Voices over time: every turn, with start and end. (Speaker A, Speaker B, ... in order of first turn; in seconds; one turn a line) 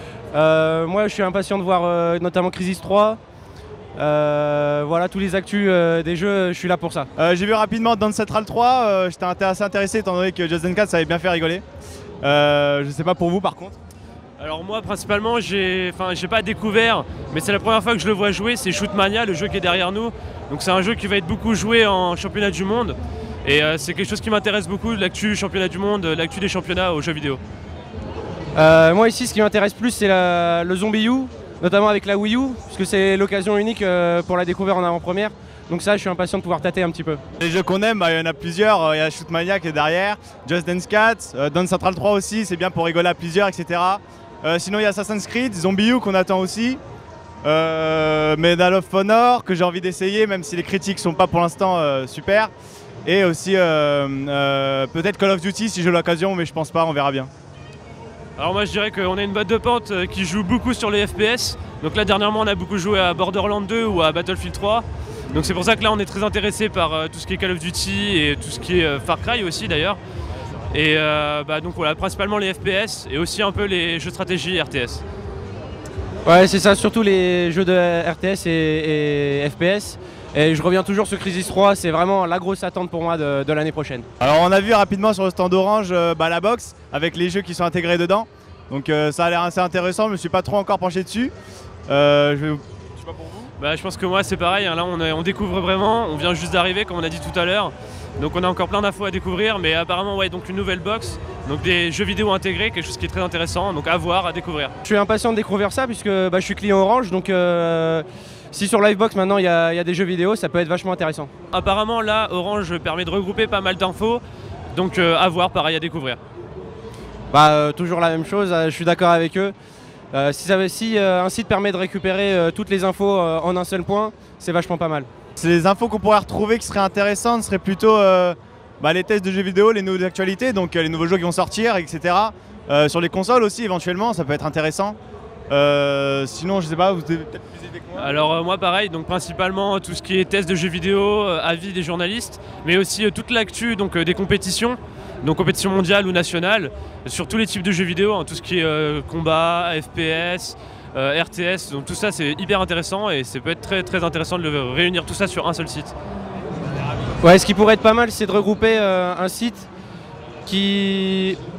Speaker A: 0.3-3.2
Speaker A: 4.0-7.1
Speaker B: 7.2-11.6
Speaker B: 12.2-13.8
Speaker C: 14.4-27.4
Speaker A: 28.5-37.2
Speaker B: 37.4-46.8
Speaker B: 47.4-52.5
Speaker B: 53.0-57.3
Speaker C: 58.4-70.0
Speaker C: 70.7-75.0
Speaker A: 76.2-84.0
Speaker B: 84.2-91.3
Speaker B: 91.9-93.5
Speaker C: 93.6-104.7
Speaker A: 104.8-111.3
Speaker C: 111.5-116.2
Speaker A: 117.3-119.5
Speaker A: 120.1-125.1
Speaker B: 125.3-135.0
Speaker B: 135.5-138.1
Speaker C: 137.9-155.9
Speaker A: 157.2-159.7
Speaker A: 160.4-161.4